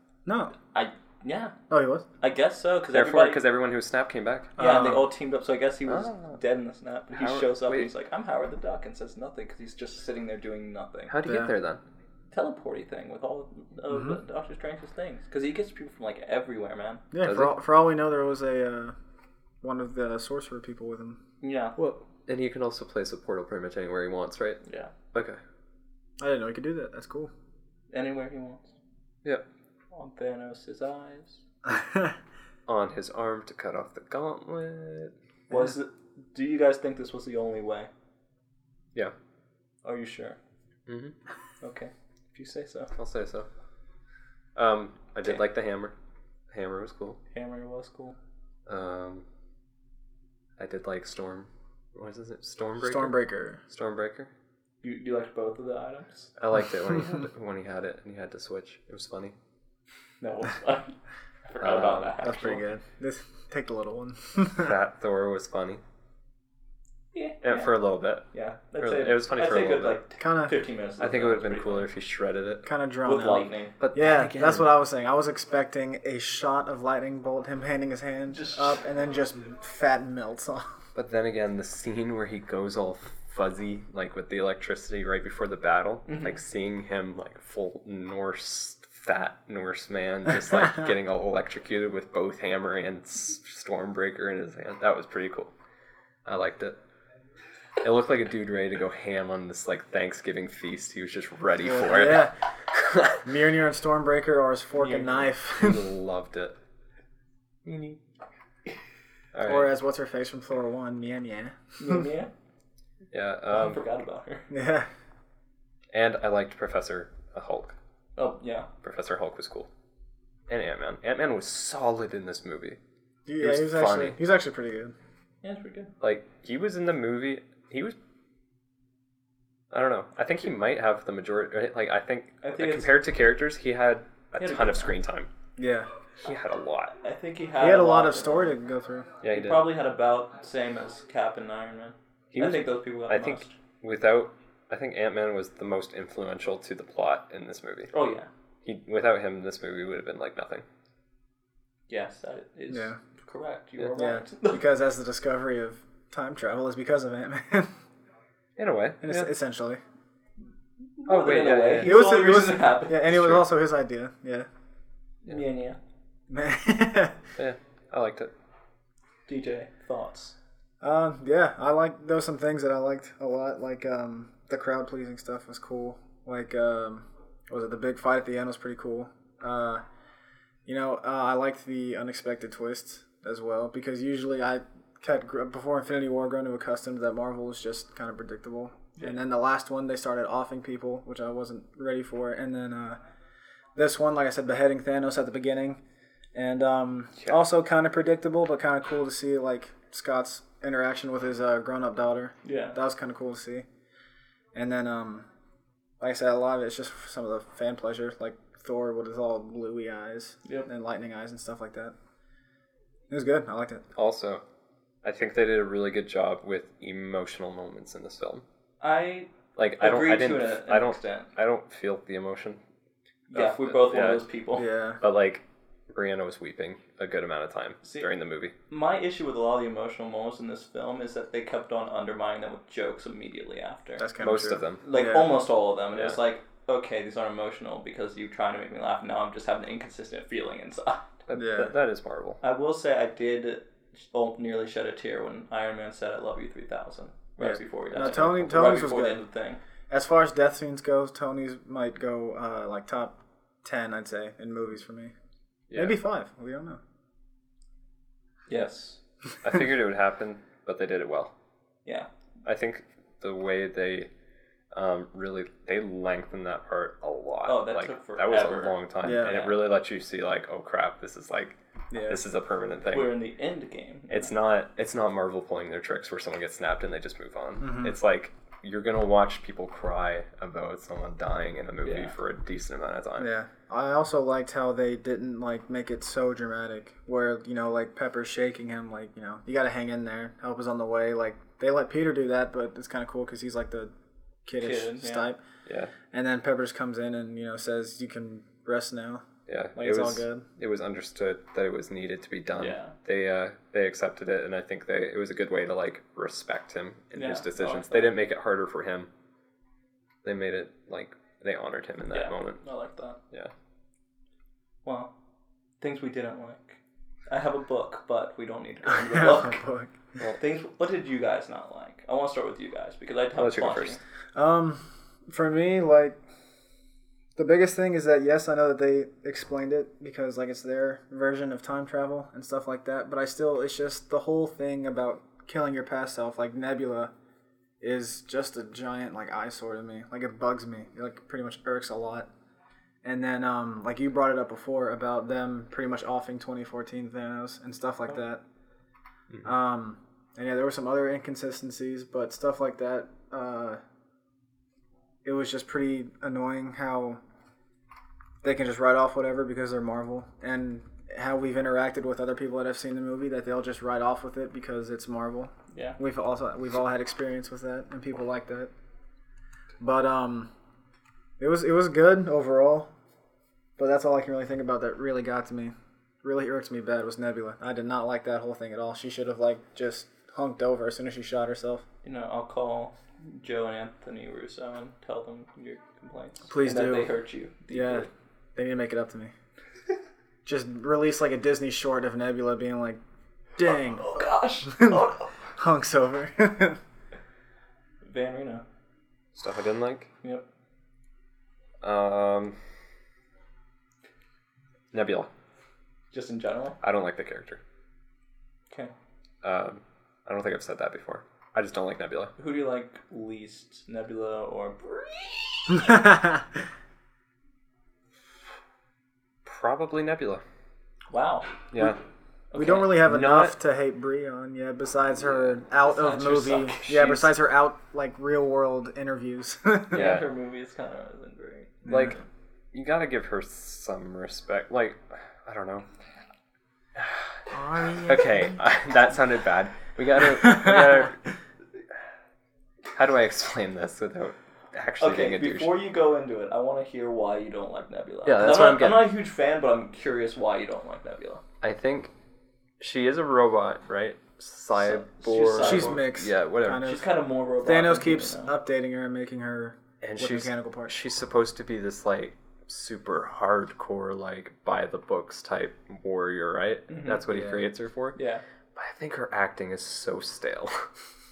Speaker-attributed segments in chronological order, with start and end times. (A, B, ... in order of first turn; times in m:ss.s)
0:00.2-0:00.5 A
0:00.7-0:01.6 B
0:01.7-0:02.1 A
0:02.2-0:03.4 B
0:02.9-0:04.5 C
0:04.6-0:05.1 A
0:04.6-0:11.1 B
0:05.9-0:06.4 C
0:07.1-0:07.9 C
0:11.1-0:11.8 C
0:11.2-0:11.5 A
0:12.3-0:17.0 B
0:13.9-0:14.2 A
0:17.1-0:18.9 A
0:17.2-0:17.5 C
0:19.6-0:21.2 A
0:21.4-0:21.8 B
0:21.8-0:22.0 A
0:22.3-0:24.6 C
0:24.6-0:24.9 B
0:25.1-0:25.4 C
0:26.2-0:27.3 A
0:27.9-0:28.8 B
0:29.9-0:31.4 B
0:31.6-0:32.2 A
0:32.7-0:35.1 C
0:35.5-0:37.9 B
0:39.8-0:40.4 B
0:40.9-0:41.1 C
0:41.6-0:42.9 B
0:42.9-0:43.5 C
0:44.6-0:45.9 C
0:46.5-0:47.2 C
0:47.3-0:48.2 B
0:48.7-0:49.2 C
0:50.6-0:54.3 C
0:52.8-0:53.6 A
0:54.8-0:56.3 B
0:56.4-0:59.3 C
1:00.2-1:02.6 B
1:01.6-1:02.3 C
1:02.2-1:04.8 A
1:04.4-1:05.8 C
1:07.1-1:07.8 B
1:07.4-1:08.3 C
1:08.3-1:11.9 B
1:08.8-1:10.0 C
1:10.2-1:10.6 A
1:11.0-1:12.7 C
1:12.6-1:20.6 A
1:13.0-1:14.5 B
1:13.8-1:14.6 C
1:18.3-1:18.7 B
1:20.9-1:35.5 C
1:26.1-1:26.4 B
1:36.2-1:36.8 C
1:37.8-1:43.2 C
1:41.6-1:42.4 A
1:43.2-1:45.9 A
1:44.8-1:46.6 C
1:47.6-1:48.0 C
1:49.3-1:49.7 C
1:49.4-1:52.0 A
1:51.8-1:52.3 B
1:53.1-1:53.8 C
1:53.5-1:54.5 B
1:54.5-1:54.9 A
1:55.9-1:57.7 C
1:58.2-1:58.7 B
1:58.8-1:59.7 C
2:00.5-2:02.8 C
2:03.3-2:04.9 A
2:03.4-2:04.2 C
2:05.4-2:05.9 B
2:06.0-2:08.0 C
2:09.7-2:15.3 C
2:12.4-2:12.9 B
2:14.4-2:14.9 B
2:15.6-2:15.9 A
2:16.2-2:16.9 C
2:17.0-2:18.6 B
2:17.6-2:19.1 A
2:19.2-2:19.7 C
2:19.3-2:23.5 B
2:22.3-2:27.9 C
2:27.9-2:28.3 B
2:28.6-2:30.6 C
2:31.9-2:34.6 B
2:32.7-2:33.0 A
2:33.9-2:37.7 A
2:38.6-2:39.3 C
2:39.0-2:39.8 A
2:41.0-2:43.1 B
2:41.1-2:42.0 C
2:41.8-2:44.5 A
2:43.1-2:43.4 C
2:45.2-2:45.8 B
2:46.3-2:47.2 A
2:47.4-2:48.3 C
2:49.3-2:50.4 B
2:50.8-2:59.8 A
3:00.7-3:13.0 A
3:13.7-3:15.8 A
3:16.3-3:23.7 A
3:22.4-3:22.8 B
3:24.6-3:25.3 A
3:26.0-3:31.9 A
3:33.1-3:33.8 A
3:34.0-3:34.4 C
3:35.0-3:38.4 C
3:38.8-3:41.3 B
3:39.6-3:42.6 C
3:43.3-3:44.7 B
3:43.3-3:44.3 C
3:44.6-3:45.0 A
3:45.0-3:48.6 C
3:47.8-3:48.1 B
3:48.7-3:54.1 B
3:54.0-3:55.3 A
3:54.2-3:54.8 C
3:54.8-4:01.2 B
4:01.3-4:02.4 C
4:01.3-4:01.7 A
4:02.4-4:09.6 B
4:07.4-4:09.2 A
4:08.0-4:08.4 C
4:09.9-4:15.1 A
4:15.7-4:16.0 C
4:15.7-4:16.8 A
4:18.5-4:19.0 B
4:19.4-4:21.3 C
4:22.4-4:24.1 C
4:24.7-4:33.2 C
4:27.4-4:29.6 B
4:29.0-4:29.4 A
4:31.9-4:32.2 A
4:32.9-4:34.3 B
4:34.1-4:43.3 C
4:37.6-4:38.0 A
4:41.8-4:42.1 B
4:43.2-4:53.9 A
4:54.4-4:55.4 A
4:54.6-4:55.3 B
4:55.7-4:55.9 C
4:56.1-5:00.4 A
4:59.5-5:09.1 C
5:02.6-5:02.9 B
5:07.1-5:08.1 B
5:10.2-5:12.6 C
5:12.1-5:13.2 B
5:14.8-5:15.1 B
5:15.8-5:19.6 B
5:18.8-5:20.0 A
5:20.4-5:24.0 B
5:23.4-5:24.0 C
5:24.3-5:26.2 A
5:27.4-5:37.1 A
5:37.8-5:42.3 A
5:43.0-5:48.4 A
5:49.4-5:53.8 A
5:55.2-5:57.2 A
5:58.4-6:08.7 A
6:05.7-6:06.0 B
6:09.8-6:10.5 A
6:11.4-6:12.9 A
6:13.8-6:21.8 A
6:22.0-6:28.1 B
6:26.5-6:27.1 A
6:27.7-6:29.3 A
6:30.4-6:33.0 A
6:33.6-6:35.0 A
6:33.7-6:35.3 B
6:35.6-6:36.8 A
6:38.0-6:38.6 B
6:39.3-6:40.1 C
6:41.8-6:42.6 C
6:44.9-6:45.3 C
6:46.1-6:46.8 B
6:46.8-6:47.6 C
6:49.4-6:52.3 C
6:52.4-6:56.1 B
6:55.8-6:56.4 A
6:59.4-7:00.4 C
7:01.1-7:01.6 B
7:01.7-7:02.0 C
7:02.5-7:03.0 B
7:02.6-7:10.1 A
7:03.0-7:03.6 C
7:05.8-7:07.2 B
7:06.9-7:07.2 C
7:09.9-7:12.2 B
7:09.9-7:10.3 C
7:11.8-7:12.1 A
7:11.9-7:12.2 C
7:12.7-7:15.8 C
7:17.0-7:21.3 C
7:17.5-7:18.5 A
7:20.5-7:20.8 A
7:22.9-7:25.8 C
7:25.0-7:31.4 B
7:28.2-7:29.1 C
7:31.6-7:32.1 C
7:32.8-7:36.9 C
7:34.8-7:36.0 B
7:35.6-7:40.9 A
7:36.8-7:38.5 B
7:40.0-7:48.2 C
7:46.9-7:47.2 B
7:47.3-7:47.7 A
7:48.1-7:48.4 B
7:48.7-7:50.9 C